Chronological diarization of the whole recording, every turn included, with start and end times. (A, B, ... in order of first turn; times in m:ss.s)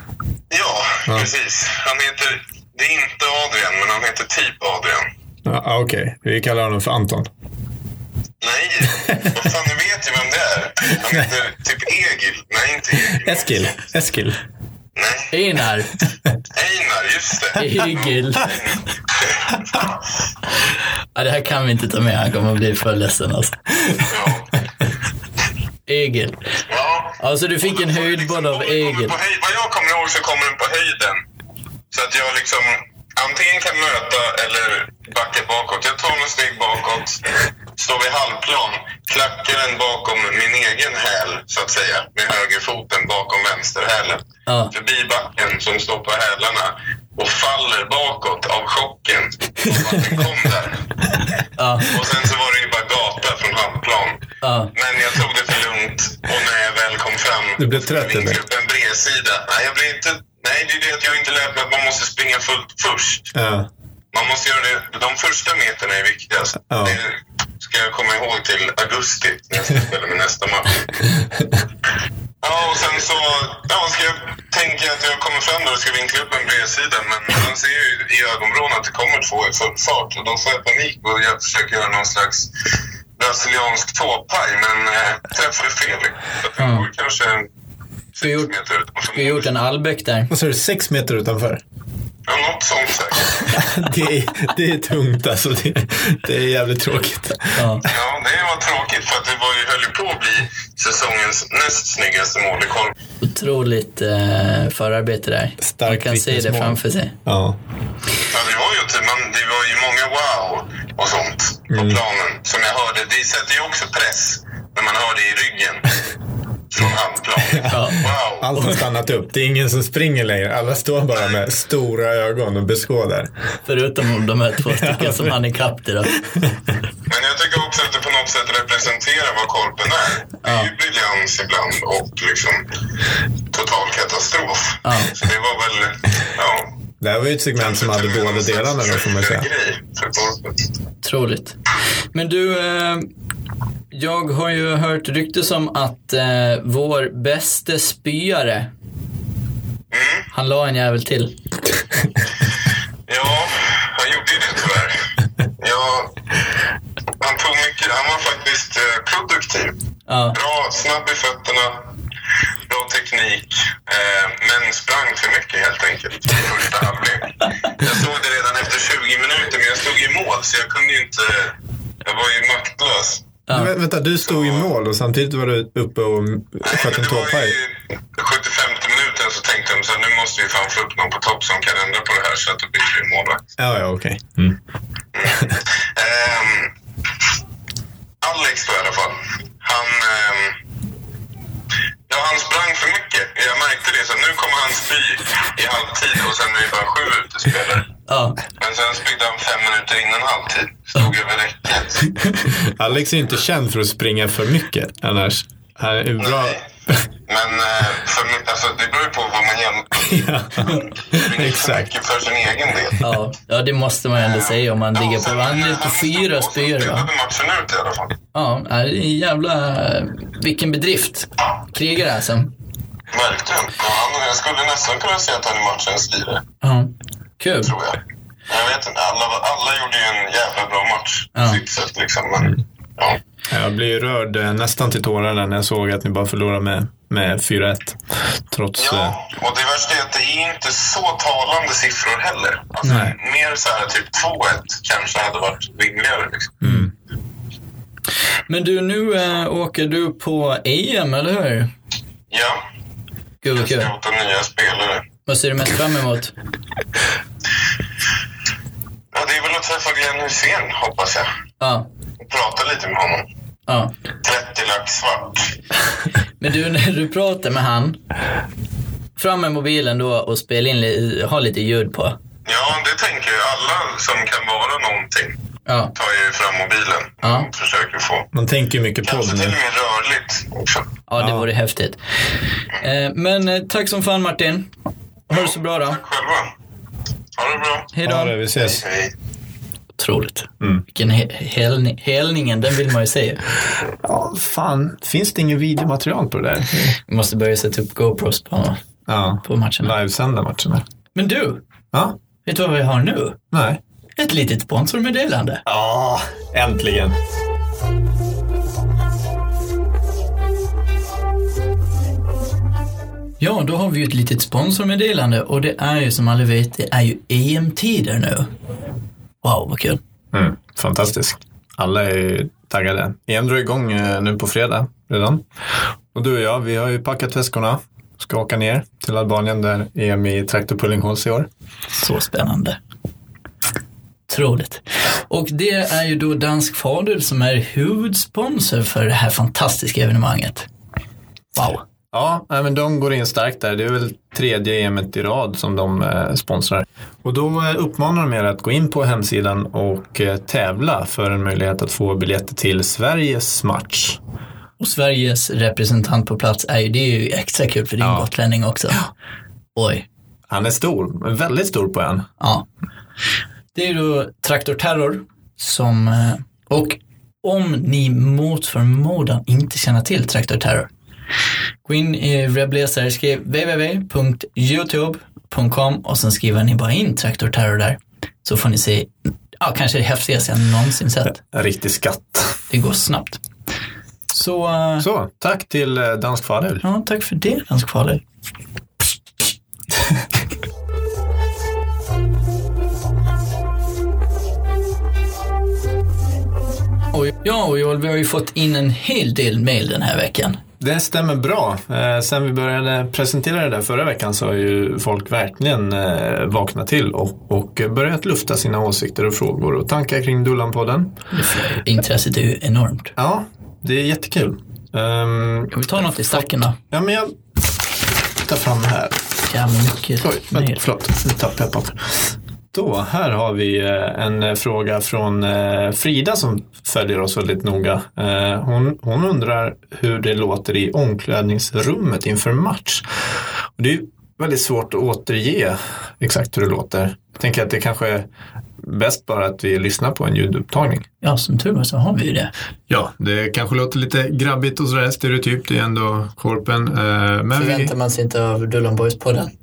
0:00.5-0:05.0 A
0:05.4-0:07.3 B
0:08.4-0:13.7 A
0:13.1-0:14.4 B
0:15.0-0:15.3 A
0:15.3-0:16.0 C
0:16.5-0:20.0 A
0:17.6-0:18.6 C
0:21.1-0:23.6 C
0:24.1-0:24.5 A
0:25.9-0:26.4 C
0:26.7-0:31.2 A
0:27.2-0:29.1 C
0:31.9-0:50.8 A
0:44.4-0:44.7 C
0:51.6-0:51.9 C
0:51.8-1:03.3 A
0:54.4-0:54.7 C
0:57.6-0:58.4 B
1:03.3-1:03.7 B
1:04.1-1:10.9 A
1:06.7-1:07.0 B
1:12.4-1:22.5 A
1:23.2-1:27.5 A
1:26.6-1:26.9 C
1:28.1-1:29.5 A
1:28.2-1:28.5 C
1:29.1-1:30.3 C
1:30.3-1:31.6 B
1:32.3-1:33.6 A
1:33.4-1:37.9 B
1:37.6-1:37.8 C
1:37.9-1:42.9 A
1:43.2-1:47.1 C
1:45.6-1:47.6 B
1:48.3-1:55.9 A
1:51.7-1:52.0 B
1:56.7-1:58.5 A
1:57.5-2:03.3 B
1:57.7-1:58.0 C
2:03.6-2:06.2 C
2:04.7-2:05.4 B
2:06.1-2:06.4 B
2:07.1-2:12.6 A
2:10.4-2:10.7 C
2:13.5-2:16.7 A
2:14.8-2:15.1 C
2:17.0-2:19.5 B
2:17.6-2:20.6 A
2:21.0-2:21.6 C
2:22.1-2:23.0 C
2:23.9-2:28.7 C
2:29.9-2:30.3 A
2:30.3-2:31.3 C
2:33.1-2:35.0 A
2:35.6-2:36.1 A
2:37.2-2:39.8 A
2:40.1-2:40.4 C
2:40.3-2:41.9 A
2:42.7-2:53.3 A
2:53.5-2:53.7 C
2:53.5-2:57.6 B
2:54.2-2:54.7 A
2:56.6-3:03.4 A
3:03.6-3:04.6 B
3:05.1-3:06.7 A
3:08.2-3:10.5 A
3:12.1-3:17.9 A
3:18.1-3:18.4 C
3:18.6-3:22.1 A
3:22.4-3:27.0 B
3:26.2-3:26.6 A
3:27.3-3:33.0 A
3:30.0-3:31.9 B
3:33.0-3:37.1 C
3:34.2-3:38.2 A
3:38.3-3:42.5 C
3:43.1-3:46.4 A
3:46.6-3:47.7 C
3:47.6-3:53.2 A
3:51.4-3:51.6 C
3:53.5-3:58.0 B
3:58.5-3:59.1 B
3:58.8-4:06.6 A
4:02.8-4:03.1 B
4:06.6-4:06.9 B
4:06.6-4:06.9 C
4:08.5-4:11.7 C
4:12.3-4:12.6 A
4:13.4-4:13.9 C
4:13.5-4:15.0 A
4:15.2-4:16.3 C
4:19.1-4:21.2 A
4:21.6-4:21.9 C
4:22.2-4:23.2 A
4:23.7-4:23.9 C
4:24.2-4:25.6 A
4:26.4-4:28.0 C
4:29.2-4:32.2 C
4:32.4-4:35.4 A
4:35.6-4:35.9 C
4:35.9-4:38.3 A
4:37.2-4:37.5 C
4:38.3-4:39.6 B
4:39.0-4:40.9 A
4:41.1-4:42.0 C
4:41.2-4:41.5 B
4:42.8-4:44.7 C
4:45.3-4:46.0 C
4:45.3-4:46.5 A
4:47.4-4:48.0 A
4:47.9-4:48.4 C
4:48.0-4:48.8 B
4:48.6-4:49.1 A
4:50.0-4:53.4 C
4:54.0-4:57.0 B
4:57.0-4:58.8 C
4:59.1-5:00.8 B
4:59.4-4:59.9 C
5:01.1-5:01.6 C
5:02.4-5:03.4 C
5:03.5-5:03.8 B
5:04.2-5:05.6 C
5:05.6-5:07.2 B
5:13.4-5:18.5 C
5:19.4-5:20.0 C
5:20.3-5:25.4 B
5:26.1-5:31.5 B
5:32.0-5:32.8 C
5:34.3-5:40.7 C
5:41.5-5:41.8 C
5:42.1-5:54.2 B
5:54.8-5:59.0 C
5:58.0-5:58.3 B
5:59.7-6:00.0 C
6:00.5-6:02.3 B
6:02.4-6:02.6 C
6:03.7-6:10.9 C
6:11.8-6:21.4 C
6:21.4-6:22.6 B
6:22.7-6:23.4 C
6:24.3-6:25.1 C
6:25.0-6:26.8 B
6:26.8-6:28.2 C
6:37.1-6:40.6 C
6:40.8-6:51.1 B
6:51.3-6:53.1 C
6:53.2-6:57.3 B
6:55.7-6:56.8 C
6:58.4-6:59.2 B
6:59.5-7:00.8 C
7:00.2-7:13.0 B
7:13.8-7:18.3 B
7:18.8-7:21.0 B
7:21.2-7:22.5 C
7:22.9-7:27.9 B
7:27.6-7:29.5 C